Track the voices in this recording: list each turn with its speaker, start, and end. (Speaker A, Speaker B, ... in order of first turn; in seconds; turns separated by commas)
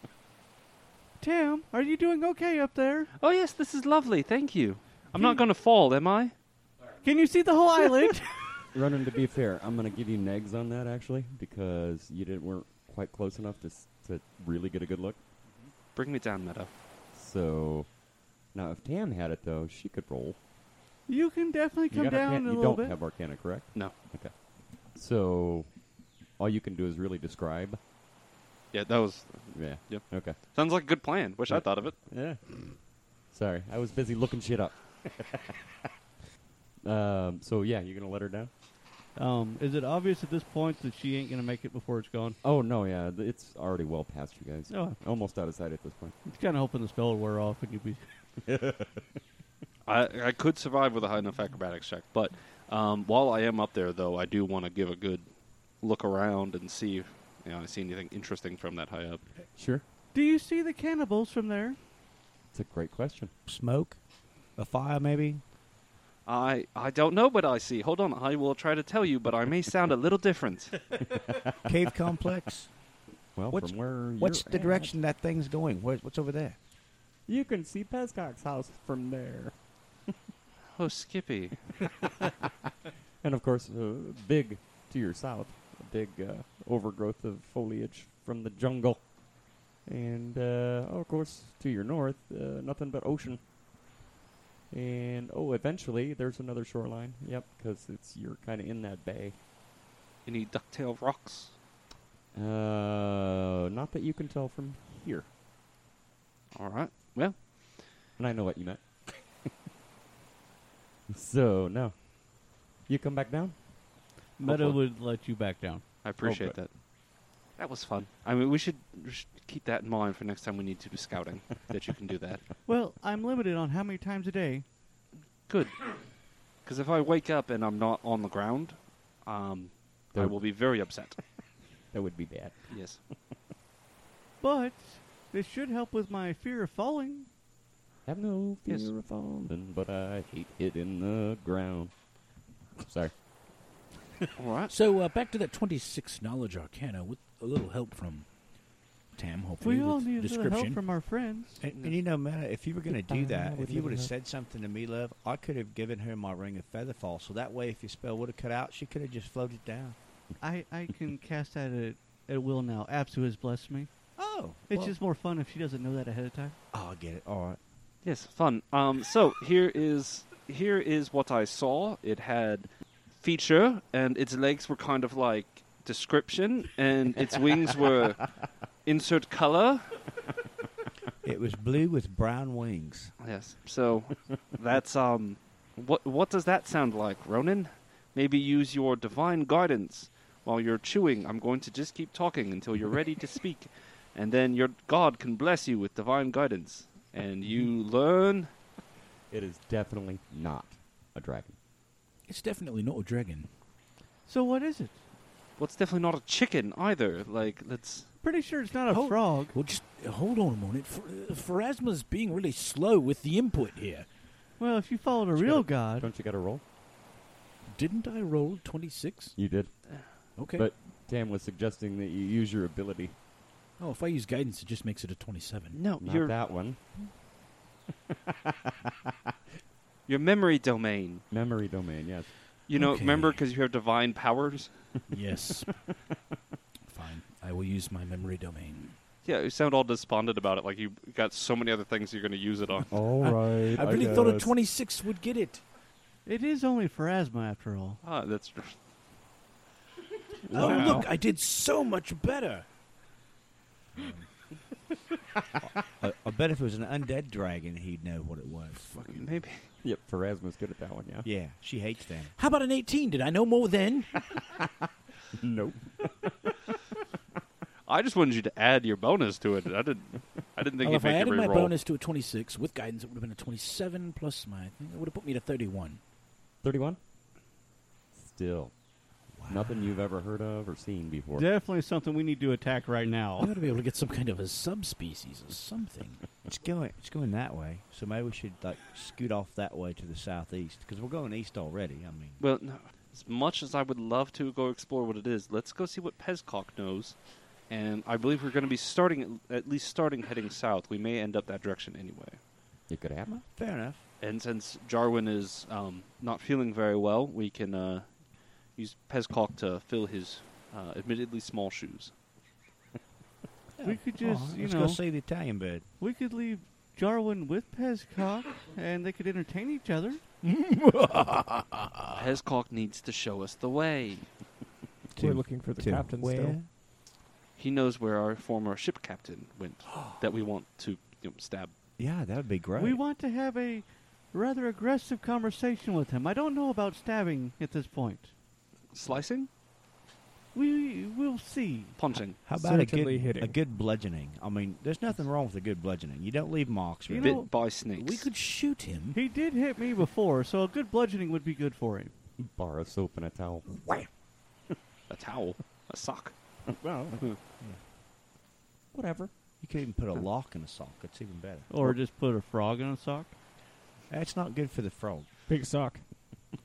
Speaker A: 1.2-3.1, Speaker B: 3.2-6.3, Speaker A: 5.1-5.4, Speaker A: 7.0-8.4, Speaker C: 8.7-15.2, Speaker B: 15.9-16.7, Speaker C: 17.1-17.9, Speaker C: 18.5-20.4, Speaker A: 21.1-22.9, Speaker C: 21.9-25.8, Speaker C: 26.4-27.8, Speaker B: 28.7-32.0, Speaker C: 29.5-30.4, Speaker C: 31.5-32.4, Speaker C: 33.2-35.6, Speaker C: 36.8-38.5, Speaker A: 39.1-42.4, Speaker C: 42.4-46.1, Speaker A: 44.7-45.0, Speaker A: 46.2-48.0, Speaker C: 48.4-49.0, Speaker B: 49.9-59.2, Speaker C: 59.6-59.8, Speaker A: 60.1-61.8, Speaker C: 62.5-63.3, Speaker D: 63.5-64.0, Speaker D: 64.5-65.4, Speaker B: 66.2-71.0, Speaker C: 71.1-71.7, Speaker D: 71.6-72.7, Speaker C: 73.4-74.9, Speaker D: 73.5-76.6, Speaker C: 77.3-79.6, Speaker B: 80.7-82.1, Speaker C: 83.2-89.2, Speaker C: 89.8-93.4, Speaker C: 94.7-99.4, Speaker B: 100.2-101.6, Speaker C: 102.3-105.3, Speaker B: 106.5-107.8, Speaker C: 108.2-109.5, Speaker C: 111.1-113.7, Speaker A: 114.4-115.9, Speaker B: 114.4-114.8, Speaker B: 116.0-122.4, Speaker C: 116.2-116.6, Speaker A: 122.7-124.6, Speaker B: 125.5-131.2, Speaker C: 130.1-130.4, Speaker C: 131.9-132.8, Speaker B: 132.7-133.0, Speaker A: 134.4-137.3, Speaker C: 138.1-142.1, Speaker B: 138.7-138.9, Speaker C: 142.8-143.2, Speaker B: 144.4-144.7, Speaker E: 144.7-148.4, Speaker E: 149.1-151.2, Speaker A: 149.6-151.6, Speaker D: 151.6-160.0, Speaker C: 152.9-154.1, Speaker A: 160.4-163.9, Speaker D: 164.2-164.9, Speaker A: 164.7-166.6, Speaker D: 166.7-167.6, Speaker B: 168.0-180.1, Speaker D: 181.2-183.1, Speaker B: 183.2-198.5, Speaker C: 199.3-201.6, Speaker E: 202.3-203.5, Speaker A: 204.2-205.0, Speaker B: 205.6-208.1, Speaker A: 208.2-209.6, Speaker E: 208.9-214.1, Speaker A: 214.6-216.1, Speaker C: 215.3-216.6, Speaker E: 217.7-219.4, Speaker C: 219.4-223.1, Speaker E: 220.4-220.7, Speaker E: 223.8-225.8, Speaker B: 225.7-226.4, Speaker C: 226.0-226.8, Speaker C: 228.3-229.1, Speaker B: 230.1-231.2, Speaker C: 231.3-232.3, Speaker B: 232.7-235.0, Speaker E: 232.7-233.4, Speaker E: 235.1-235.8, Speaker E: 236.9-238.9, Speaker B: 239.2-242.9, Speaker C: 242.9-244.6, Speaker E: 243.2-245.6, Speaker A: 246.2-248.0, Speaker B: 248.0-248.8, Speaker E: 250.5-252.7, Speaker F: 250.5-251.1, Speaker B: 250.6-251.0, Speaker E: 253.9-254.3, Speaker D: 255.8-259.3, Speaker B: 258.9-259.7, Speaker C: 259.8-261.3, Speaker D: 261.2-262.3, Speaker E: 262.4-264.2, Speaker C: 264.3-266.6, Speaker B: 267.9-271.7, Speaker E: 270.8-276.0, Speaker C: 276.6-277.0, Speaker C: 278.1-278.7, Speaker C: 279.5-281.4, Speaker A: 281.4-283.6, Speaker E: 283.4-286.3, Speaker D: 286.4-292.4, Speaker B: 292.4-302.4, Speaker C: 302.9-303.4, Speaker D: 303.3-304.0, Speaker B: 304.2-308.2, Speaker B: 308.7-312.1, Speaker D: 313.8-315.9, Speaker A: 313.8-315.0, Speaker A: 316.0-320.2, Speaker E: 320.4-321.9, Speaker B: 322.1-324.3, Speaker D: 325.1-326.7, Speaker F: 325.2-326.6, Speaker B: 327.6-331.7, Speaker D: 332.0-333.0, Speaker A: 332.8-338.3, Speaker B: 338.9-339.5, Speaker A: 340.5-342.0, Speaker B: 342.0-342.4, Speaker D: 342.4-347.4, Speaker F: 342.5-343.6, Speaker A: 347.1-347.5, Speaker B: 347.2-348.3, Speaker E: 347.6-349.2, Speaker A: 349.1-352.1, Speaker C: 352.4-354.1, Speaker B: 355.1-356.3, Speaker C: 356.6-357.2, Speaker C: 358.9-359.3, Speaker D: 359.6-361.7, Speaker A: 361.7-363.3, Speaker D: 364.1-365.3, Speaker F: 365.5-366.0